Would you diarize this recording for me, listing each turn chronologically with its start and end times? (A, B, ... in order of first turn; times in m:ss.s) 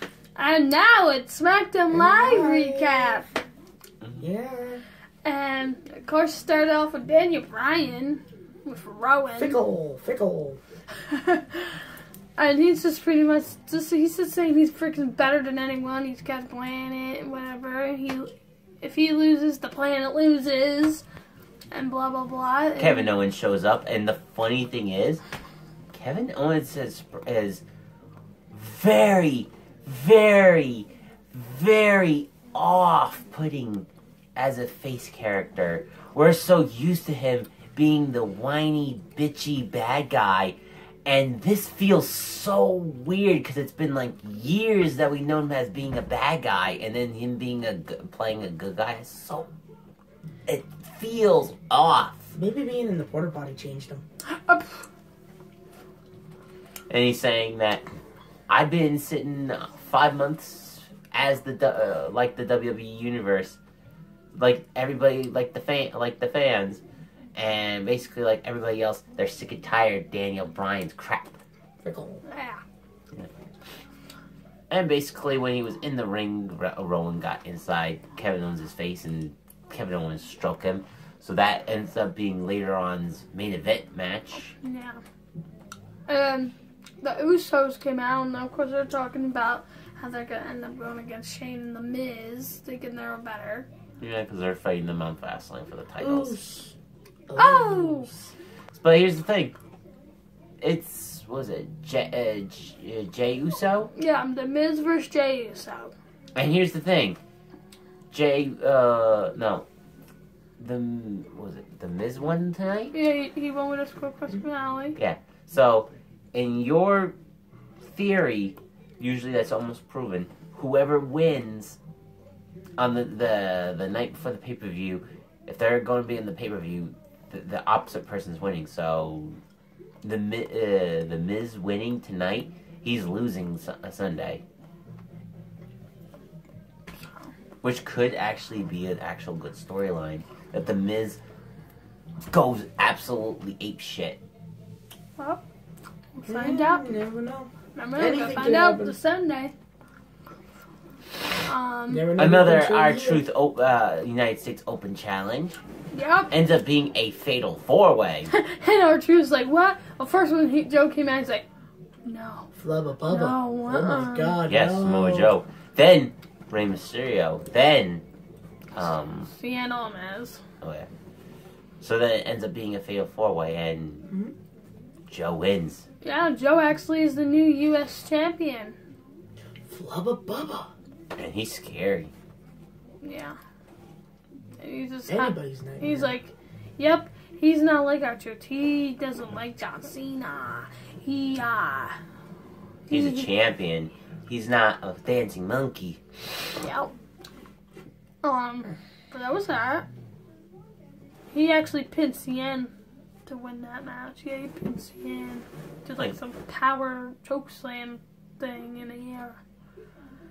0:00.4-0:03.3 A
0:01.9-0:03.2 B
0:04.2-0:04.8 B
0:05.2-0:09.6 A
0:09.4-0:10.6 B
0:11.1-0:11.7 A
0:12.4-0:21.0 A
0:21.7-0:23.1 A
0:22.8-0:25.2 C
0:25.9-0:27.6 C
0:28.5-0:49.5 C
0:50.5-0:52.3 C
0:52.4-0:54.0 B
0:54.3-0:54.9 A
0:56.9-0:57.8 C
0:58.5-1:03.6 C
1:04.3-1:06.8 C
1:07.4-1:11.4 C
1:11.8-1:12.2 B
1:12.3-1:12.6 A
1:14.7-1:24.6 C
1:24.5-1:25.0 A
1:26.1-1:33.7 A
1:34.0-1:36.4 C
1:36.0-1:36.8 B
1:37.3-1:38.2 B
1:37.4-1:38.1 A
1:38.7-1:39.5 C
1:40.6-1:43.9 C
1:43.9-1:45.9 A
1:46.4-1:47.2 C
1:48.1-1:49.6 C
1:50.6-1:52.9 C
1:52.9-1:55.0 A
1:55.0-1:57.2 C
1:57.8-2:01.8 C
2:02.8-2:09.4 C
2:10.0-2:14.4 C
2:17.6-2:21.2 C
2:22.3-2:24.2 C
2:25.2-2:25.4 A
2:26.2-2:27.0 A
2:26.3-2:29.0 B
2:27.7-2:29.5 A
2:31.4-2:32.1 A
2:31.9-2:33.2 B
2:32.2-2:35.6 C
2:35.9-2:36.3 A
2:36.3-2:38.3 C
2:38.3-2:41.4 A
2:42.0-2:42.5 A
2:42.6-2:45.3 B
2:43.1-2:44.4 A
2:44.5-2:48.0 C
2:48.7-2:49.3 C
2:49.2-2:50.4 A
2:50.6-2:50.9 C
2:51.8-2:54.1 C
2:54.1-2:54.3 B
2:55.1-2:55.9 C
2:56.0-2:58.8 A
2:59.7-3:00.7 B
3:01.2-3:02.1 C
3:03.0-3:03.4 A
3:04.6-3:12.0 A
3:05.1-3:06.2 B
3:12.9-3:13.3 A
3:12.9-3:16.0 C
3:16.6-3:16.9 A
3:18.2-3:19.9 A
3:21.3-3:22.7 A
3:23.3-3:29.4 A